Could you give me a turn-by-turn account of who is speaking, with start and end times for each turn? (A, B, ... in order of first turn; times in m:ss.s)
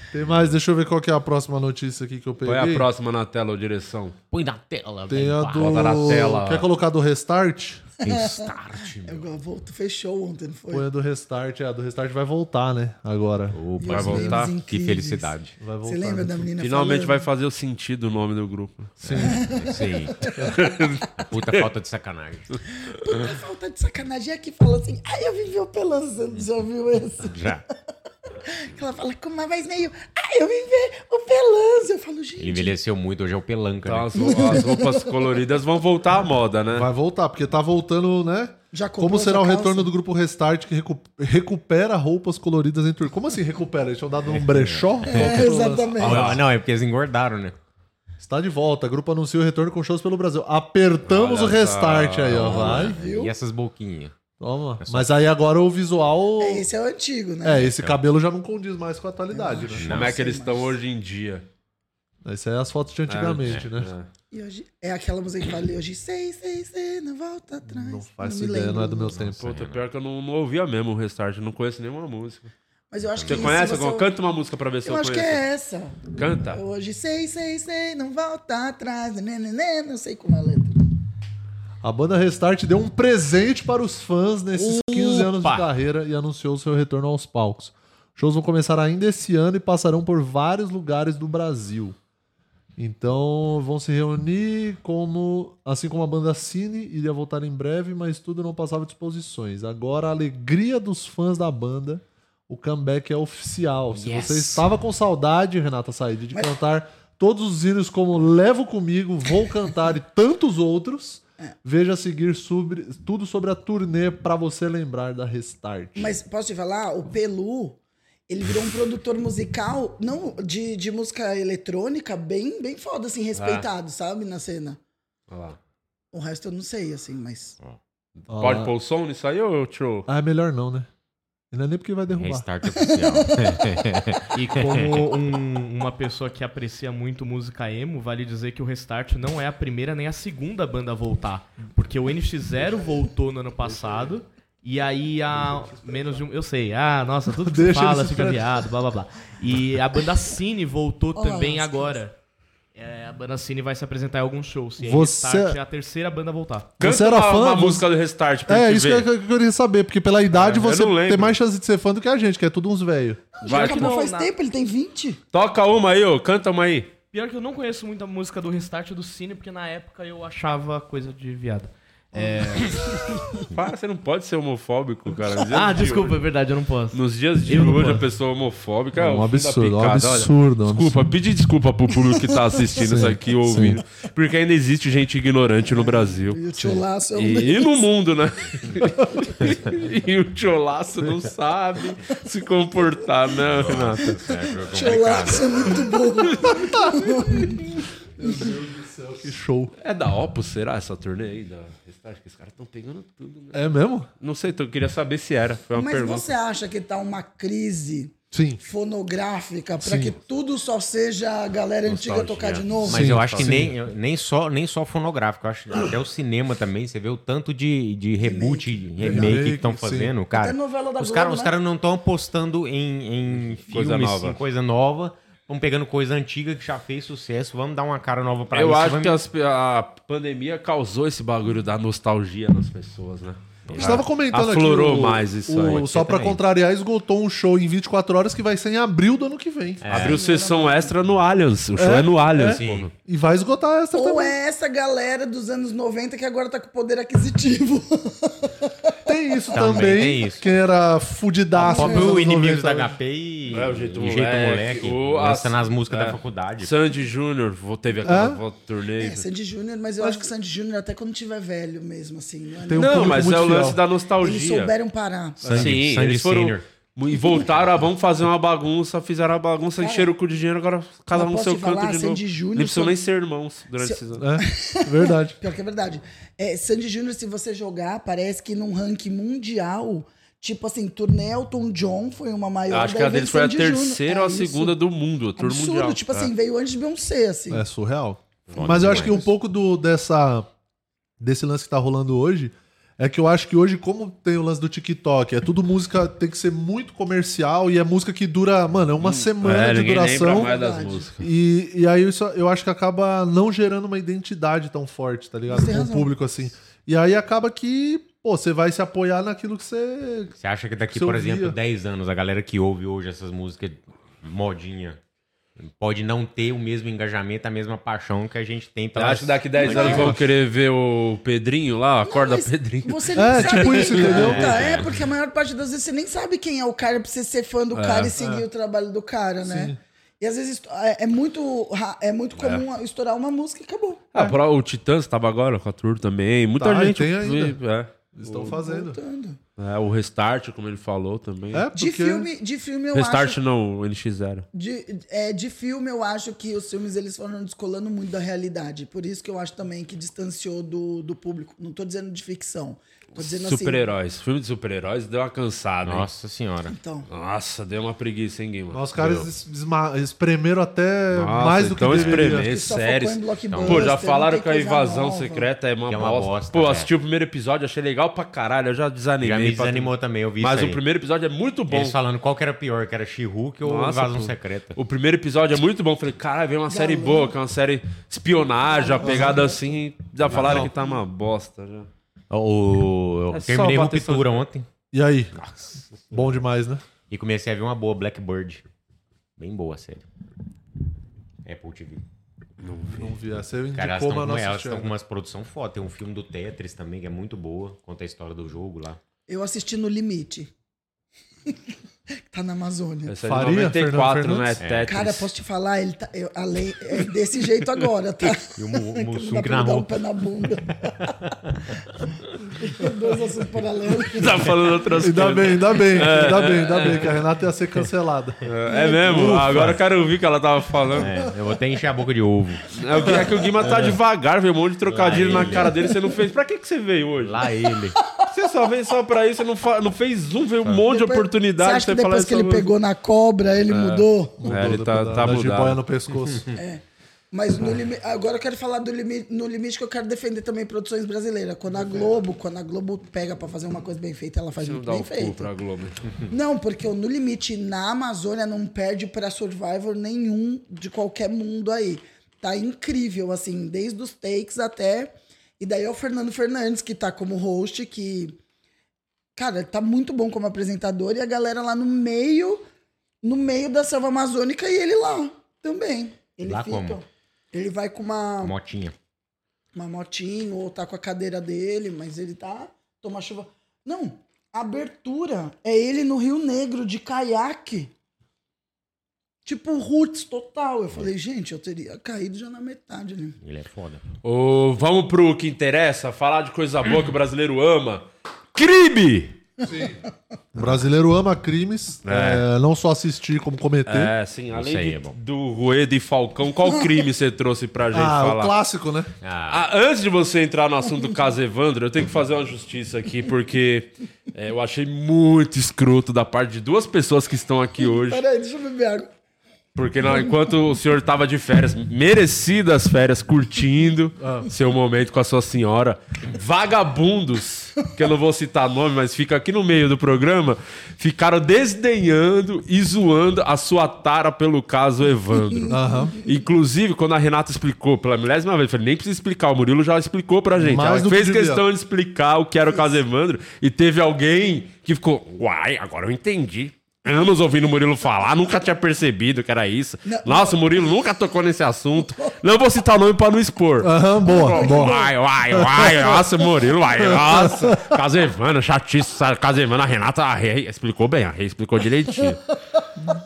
0:00.1-0:02.9 A
0:02.4-0:04.2 B
0:04.3-0:06.2 C
0:05.1-0:07.9 A
0:05.6-0:06.7 B
0:08.0-0:10.9 D
0:08.0-0:09.3 C
0:10.7-0:13.6 A
0:13.5-0:15.6 C
0:13.8-0:17.2 D
0:13.9-0:14.5 B
0:15.6-0:16.5 A
0:16.6-0:19.4 B
0:19.0-0:20.3 C
0:19.2-0:20.6 D
0:20.4-0:21.6 B
0:21.2-0:22.6 C
0:22.8-0:27.4 D
0:27.2-0:27.6 C
0:28.4-0:32.8 D
0:32.4-0:34.6 C
0:33.8-0:36.9 B
0:34.2-0:35.1 D
0:36.7-0:46.4 A
0:38.7-0:39.9 D
0:44.2-0:47.6 C
0:45.1-0:46.4 D
0:48.2-0:53.0 A
0:51.1-0:52.7 B
0:52.3-0:54.1 C
0:52.5-0:53.3 D
0:54.4-0:56.7 A
0:54.8-0:55.1 C
0:56.4-0:57.7 D
0:57.4-0:59.9 A
0:57.7-0:58.0 C
0:59.3-1:00.7 D
0:59.7-1:00.2 C
0:59.9-1:01.5 B
1:02.2-1:03.9 A
1:03.1-1:04.1 B
1:04.3-1:09.2 D
1:07.7-1:09.4 A
1:09.2-1:09.8 C
1:09.4-1:12.5 B
1:12.9-1:14.1 D
1:13.1-1:13.8 C
1:13.2-1:15.4 B
1:14.8-1:20.8 D
1:16.1-1:16.6 B
1:21.8-1:32.0 A
1:24.7-1:25.6 C
1:32.8-1:56.2 A
1:43.9-1:44.6 C
1:56.0-2:04.8 D
2:03.3-2:03.6 C
2:05.3-2:05.6 B
2:06.1-2:07.6 D
2:08.2-2:10.1 B
2:08.3-2:08.7 A
2:10.1-2:10.9 A
2:11.5-2:12.5 A
2:12.1-2:15.4 C
2:12.7-2:13.9 D
2:14.3-2:32.2 E
2:27.4-2:28.6 A
2:31.2-2:32.0 D
2:32.7-2:36.7 E
2:34.8-2:35.6 A
2:36.8-2:39.1 B
2:36.8-2:37.9 A
2:38.5-2:43.4 A
2:40.3-2:41.4 B
2:43.4-2:45.2 D
2:43.4-2:44.0 B
2:43.4-2:44.3 E
2:45.3-2:46.9 B
2:47.1-2:53.2 E
2:53.5-2:56.2 B
2:55.5-2:58.0 E
2:56.9-3:06.4 B
2:58.9-3:01.0 A
3:02.8-3:03.8 A
3:05.6-3:07.9 D
3:06.6-3:06.8 A
3:07.1-3:14.2 B
3:13.5-3:15.9 C
3:14.3-3:18.5 D
3:16.4-3:17.6 A
3:18.2-3:19.7 A
3:19.8-3:23.6 B
3:23.5-3:24.1 A
3:24.2-3:26.3 B
3:25.7-3:33.0 D
3:28.3-3:28.6 A
3:29.8-3:30.2 A
3:31.8-3:49.2 C
3:32.8-3:33.7 A
3:33.0-3:33.7 B
3:38.2-3:39.4 D
3:39.0-3:40.1 A
3:40.3-3:41.5 D
3:43.3-3:44.4 B
3:48.5-3:56.1 B
3:53.7-3:54.0 C
3:53.7-3:59.9 A
3:55.7-3:56.4 C
3:59.8-4:00.3 C
3:59.8-4:02.9 B
3:59.9-4:00.9 D
4:01.8-4:04.4 A
4:02.4-4:02.9 C
4:03.9-4:08.8 D
4:09.0-4:13.0 A
4:09.5-4:10.5 C
4:11.6-4:16.8 C
4:11.6-4:12.2 D
4:13.5-4:19.2 B
4:18.0-4:18.4 A
4:19.0-4:23.7 D
4:20.0-4:20.3 A
4:22.6-4:23.8 A
4:22.7-4:24.7 B
4:24.2-4:25.5 D
4:25.4-4:25.8 A
4:25.4-4:26.6 C
4:25.5-4:34.2 B
4:29.8-4:30.1 D
4:31.1-4:33.0 D
4:33.8-4:44.8 D
4:34.2-4:35.4 A
4:42.7-4:46.3 B
4:45.4-4:47.6 D
4:47.5-4:50.5 A
4:48.5-4:49.2 C
4:48.7-4:49.3 D
4:51.2-5:00.5 A
4:59.0-5:01.3 B
5:00.2-5:01.0 D
5:01.2-5:10.3 A
5:05.5-5:06.1 D
5:10.4-5:15.0 C
5:10.9-5:11.6 A
5:15.6-5:20.1 C
5:18.9-5:24.5 B
5:19.6-5:20.1 D
5:22.0-5:34.0 D
5:23.2-5:24.6 A
5:24.0-5:25.0 C
5:27.7-5:28.1 B
5:28.2-5:28.5 A
5:29.4-5:29.8 A
5:32.4-5:32.6 B
5:34.1-5:38.5 B
5:36.6-5:37.6 A
5:38.1-5:39.0 A
5:38.4-5:39.4 D
5:39.6-5:41.6 B
5:41.5-5:42.3 A
5:41.8-5:43.4 D
5:42.9-5:44.4 B
5:44.5-5:53.9 D
5:53.1-5:56.1 B
5:55.8-5:56.8 C
5:56.7-5:57.1 D
5:57.1-5:58.8 B
5:58.7-6:02.5 A
5:59.0-5:59.3 C
6:01.1-6:12.0 B
6:02.1-6:05.5 D
6:03.5-6:03.9 C
6:05.9-6:06.9 C
6:09.2-6:10.8 C
6:11.7-6:14.8 C
6:13.6-6:21.9 B
6:16.7-6:17.4 D
6:18.6-6:19.6 D
6:19.0-6:19.4 A
6:20.3-6:20.7 A
6:22.3-6:24.7 C
6:23.3-6:24.4 B
6:24.9-6:25.3 A
6:26.1-6:26.8 A
6:27.1-6:28.6 C
6:29.4-6:30.0 C
6:31.4-6:32.0 C
6:32.6-6:33.2 B
6:32.9-6:34.9 A
6:33.7-6:39.0 C
6:39.3-6:40.5 D
6:42.3-6:43.1 D
6:43.1-6:45.3 B
6:43.2-6:44.6 A
6:44.6-6:45.0 C
6:44.9-6:51.2 D
6:48.6-6:50.0 C
6:52.4-6:54.6 D
6:54.1-6:57.2 B
6:55.0-6:58.4 A
6:58.4-7:01.1 B
6:58.7-6:59.4 D
6:59.0-6:59.8 A
7:01.0-7:03.7 C
7:02.7-7:07.4 B
7:04.9-7:05.8 C
7:05.4-7:05.8 D
7:07.2-7:08.0 C
7:08.3-7:12.7 B
7:10.7-7:14.5 D
7:13.7-7:15.8 B
7:14.4-7:16.5 A
7:16.6-7:25.5 D
7:24.6-7:26.1 B
7:26.3-7:38.4 D
7:39.4-7:42.6 D
7:43.2-7:48.5 D
7:46.4-7:47.0 C
7:48.4-7:48.9 C
7:49.7-7:57.9 D
7:59.4-8:03.4 D
8:03.4-8:04.0 C
8:04.2-8:09.4 B
8:09.6-8:10.0 A
8:10.5-8:14.1 A
8:12.0-8:12.4 B
8:13.9-8:18.5 B
8:14.5-8:15.2 C
8:17.9-8:19.1 A
8:19.2-8:19.6 C
8:19.5-8:28.2 B
8:27.8-8:29.1 D
8:29.7-9:12.4 B
8:34.2-8:34.5 A
8:45.7-8:46.2 A
8:50.6-8:51.6 A
9:00.0-9:00.7 D
9:03.8-9:06.2 A
9:04.5-9:05.1 D
9:07.0-9:07.8 A